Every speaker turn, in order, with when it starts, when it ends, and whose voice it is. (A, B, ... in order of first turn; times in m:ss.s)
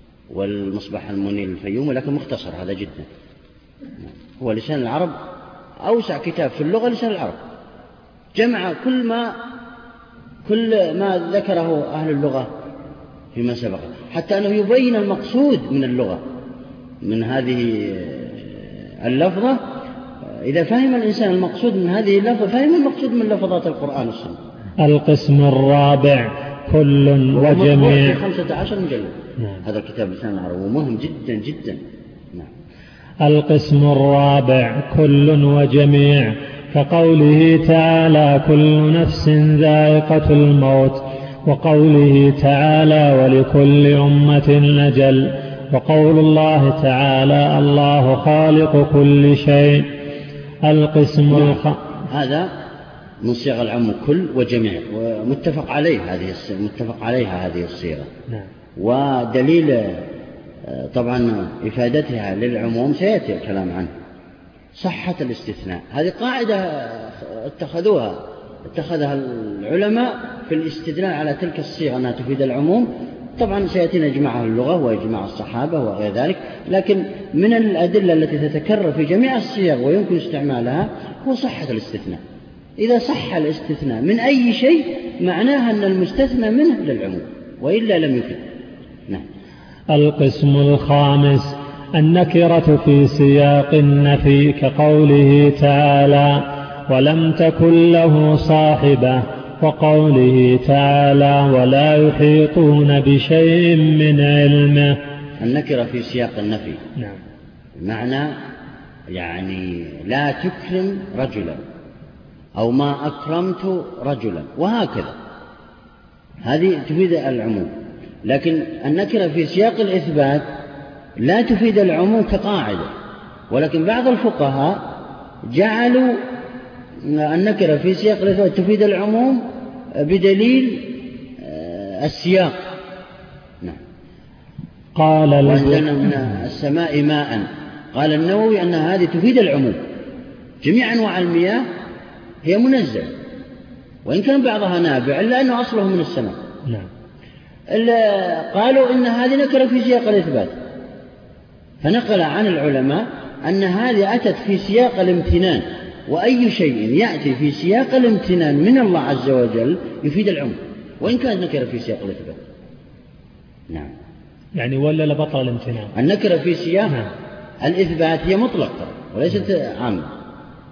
0:00.3-0:03.1 A
0:04.0-0:05.2 A
0:05.8-0:07.4 A
0:08.3-0:09.3 A
0:10.4-0:12.5 A
0:13.3-0:16.2 A
0:17.0-0:24.4 A
0:24.8-0:28.2 B
0:27.3-0:31.8 A
0:33.2-0:49.9 B
0:50.6-0:51.8 B
0:51.3-0:52.5 A
0:53.2-0:58.1 A
0:58.8-1:03.9 A
1:04.7-1:22.2 A
1:22.8-1:28.4 A
1:29.9-1:45.0 B
1:45.4-1:46.8 A
1:47.8-1:48.3 A
1:49.1-1:51.6 A
1:52.6-1:55.2 A
1:56.4-2:00.5 A
2:01.2-2:02.9 A
2:03.5-2:05.0 A
2:05.5-2:06.2 A
2:07.0-2:12.6 A
2:14.9-2:16.1 B
2:15.4-2:19.9 A
2:20.6-2:21.7 A
2:22.4-2:23.1 A
2:24.0-2:26.4 A
2:27.7-2:30.6 A
2:31.8-2:42.4 A
2:44.6-2:45.9 B
2:45.9-2:47.0 A
2:47.6-2:50.1 A